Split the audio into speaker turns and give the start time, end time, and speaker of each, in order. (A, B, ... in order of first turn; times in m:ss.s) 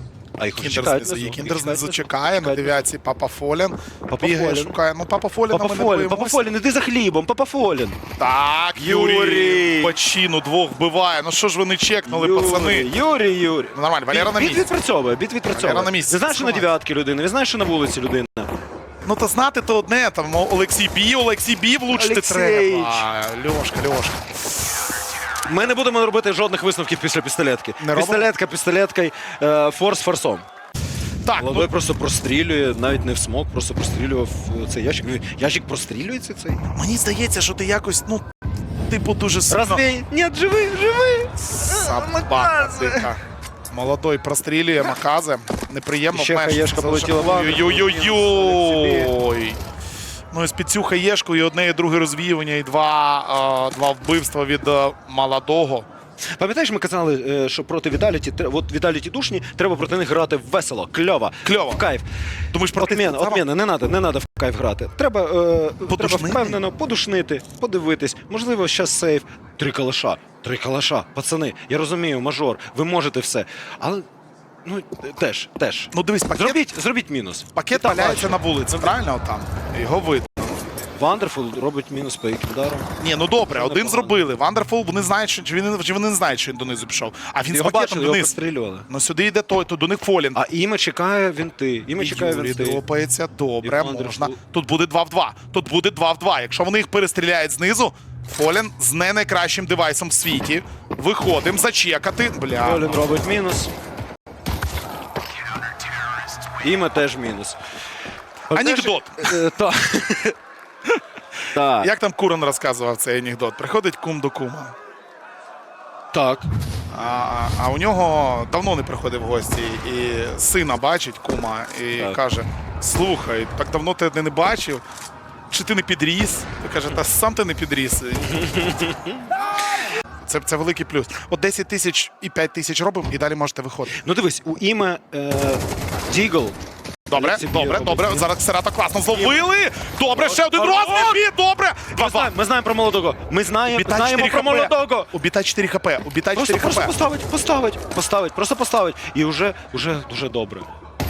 0:00.4-0:02.8 A
0:00.6-0:06.5 B
0:04.1-0:04.8 A
0:05.5-0:08.0 A
0:08.2-0:12.9 B
0:08.8-0:10.0 A
0:12.1-0:18.5 A
0:13.7-0:14.7 B
0:15.5-0:16.7 B
0:19.0-0:24.3 B
0:21.9-0:23.0 A
0:25.5-0:30.5 A
0:27.8-0:28.3 B
0:31.2-0:31.7 B
0:31.4-0:36.6 A
0:36.7-0:38.3 B
0:38.9-0:39.8 B
0:39.5-0:43.1 A
0:41.6-0:43.2 B
0:43.7-0:49.6 B
0:46.1-0:49.1 A
0:50.3-0:55.9 B
0:56.4-1:02.1 A
1:01.4-1:01.8 B
1:02.5-1:03.4 B
1:02.7-1:14.1 A
1:05.9-1:06.6 B
1:14.6-1:19.0 A
1:15.9-1:16.6 B
1:17.5-1:20.6 B
1:21.0-1:22.9 A
1:23.0-1:28.4 B
1:23.5-1:24.2 A
1:27.5-1:28.9 A
1:28.9-1:30.4 B
1:30.4-1:32.8 A
1:32.0-1:43.0 B
1:33.6-1:34.4 A
1:42.6-1:43.7 A
1:46.6-1:47.6 A
1:48.5-1:50.4 A
1:48.5-1:49.4 B
1:51.5-1:51.9 A
1:51.8-1:54.7 B
1:56.1-1:56.5 A
1:56.9-2:04.8 B
2:05.5-2:08.4 B
2:08.3-2:09.2 A
2:10.2-2:14.0 B
2:13.9-2:16.6 A
2:17.1-2:22.3 B
2:17.1-2:18.3 A
2:19.1-2:19.4 A
2:20.2-2:21.2 A
2:21.9-2:25.1 A
2:23.7-2:26.9 B
2:26.4-2:30.7 A